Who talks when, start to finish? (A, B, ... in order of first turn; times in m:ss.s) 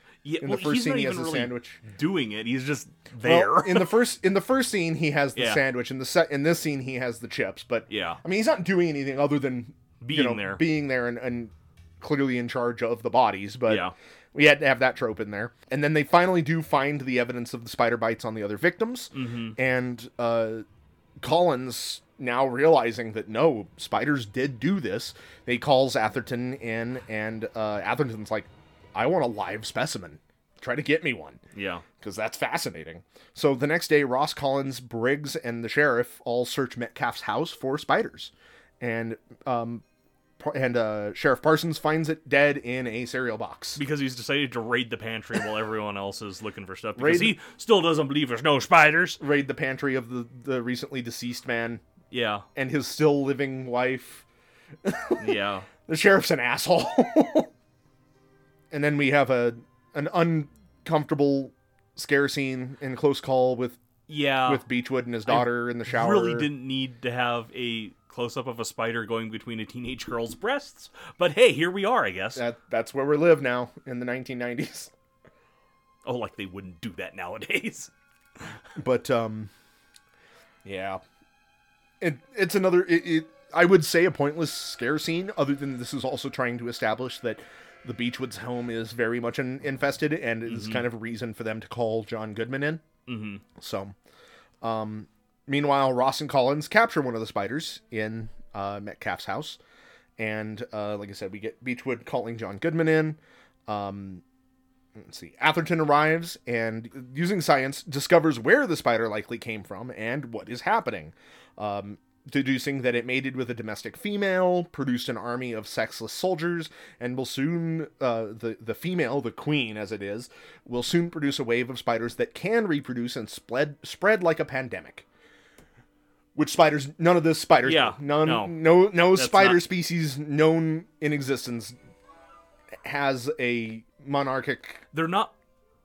0:00.2-0:04.0 A
0:00.4-0:01.8 B
0:03.2-0:20.6 B
0:05.3-0:05.6 A
0:07.9-0:08.2 A
0:10.0-0:10.6 A
0:13.7-0:13.9 A
0:19.1-0:19.6 A
0:21.2-0:31.4 B
0:31.5-0:31.8 A
0:32.0-0:39.8 B
0:40.4-0:43.8 B
0:43.8-0:49.2 A
0:47.0-0:47.4 B
0:49.2-0:51.8 B
0:52.1-0:52.4 A
0:52.5-0:54.2 B
0:54.8-0:55.2 B
0:55.2-0:55.7 A
0:55.9-0:57.5 B
0:58.7-1:03.8 B
1:04.1-1:04.6 A
1:04.4-1:06.5 B
1:05.3-1:12.4 A
1:12.4-1:14.9 B
1:16.0-1:17.9 A
1:18.8-1:19.5 B
1:20.6-1:21.0 B
1:22.0-1:32.8 B
1:30.5-1:30.8 A
1:33.1-1:33.4 A
1:33.6-1:33.9 B
1:34.6-1:39.6 B
1:40.2-1:44.2 B
1:45.0-2:05.0 B
2:06.3-2:11.7 B
2:07.6-2:09.7 A
2:12.8-2:14.8 B
2:14.9-2:15.3 A